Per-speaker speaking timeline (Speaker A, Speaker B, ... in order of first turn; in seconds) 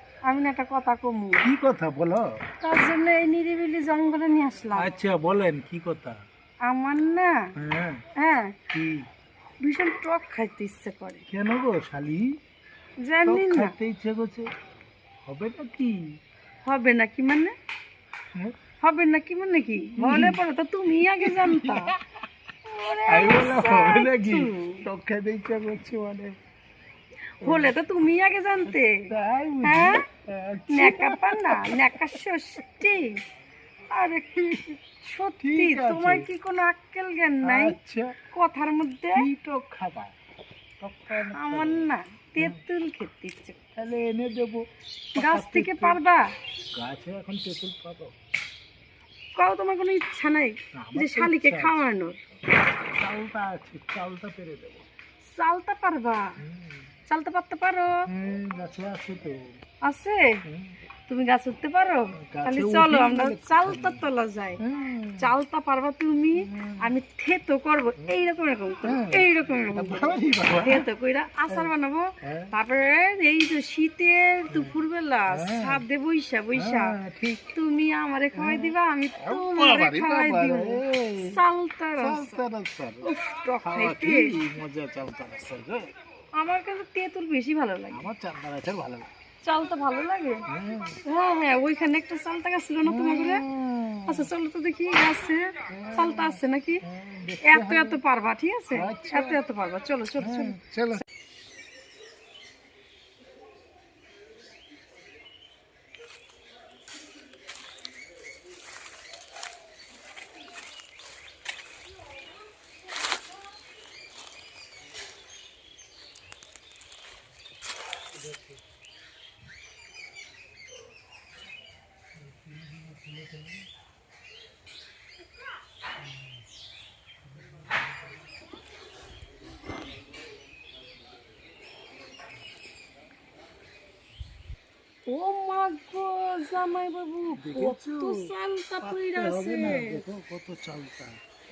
Speaker A: 0.3-1.5, 2.6-4.9, 6.6-7.5, 8.2-8.5, 9.6-11.2, 13.0-13.7, 16.6-17.5, 18.8-21.9, 22.6-24.8, 27.4-29.1, 29.6-30.0, 30.7-33.2, 33.9-37.8, 38.3-39.3, 41.3-43.6, 45.2-46.3, 49.4-52.2, 55.2-56.4, 57.1-58.0, 59.8-60.4, 61.1-64.6, 65.2-76.9, 77.5-82.4, 83.0-84.3, 86.4-88.1, 89.4-90.5, 91.0-93.4, 94.0-96.8, 97.4-101.0, 135.1-140.0
Speaker B: 1.4-2.3, 4.7-6.2, 7.5-8.0, 8.7-9.1, 11.3-12.3, 13.2-14.4, 15.2-16.0, 20.0-20.4, 21.0-22.0, 23.1-26.4, 27.4-27.7, 28.7-32.2, 35.4-36.3, 37.4-38.1, 39.1-40.1, 40.8-42.6, 43.8-44.6, 45.1-46.0, 46.7-48.1, 50.7-51.7, 52.8-54.9, 56.4-56.9, 58.1-59.4, 60.5-60.7, 62.2-64.0, 64.6-65.3, 66.4-66.9, 68.8-70.8, 72.2-72.5, 74.5-74.8, 75.3-75.8, 76.5-77.4, 78.3-81.4, 82.0-83.1, 83.6-85.9, 87.9-89.1, 90.5-91.0, 92.8-94.3, 95.7-98.0, 98.7-99.4, 100.2-101.0, 122.3-123.5, 137.3-141.2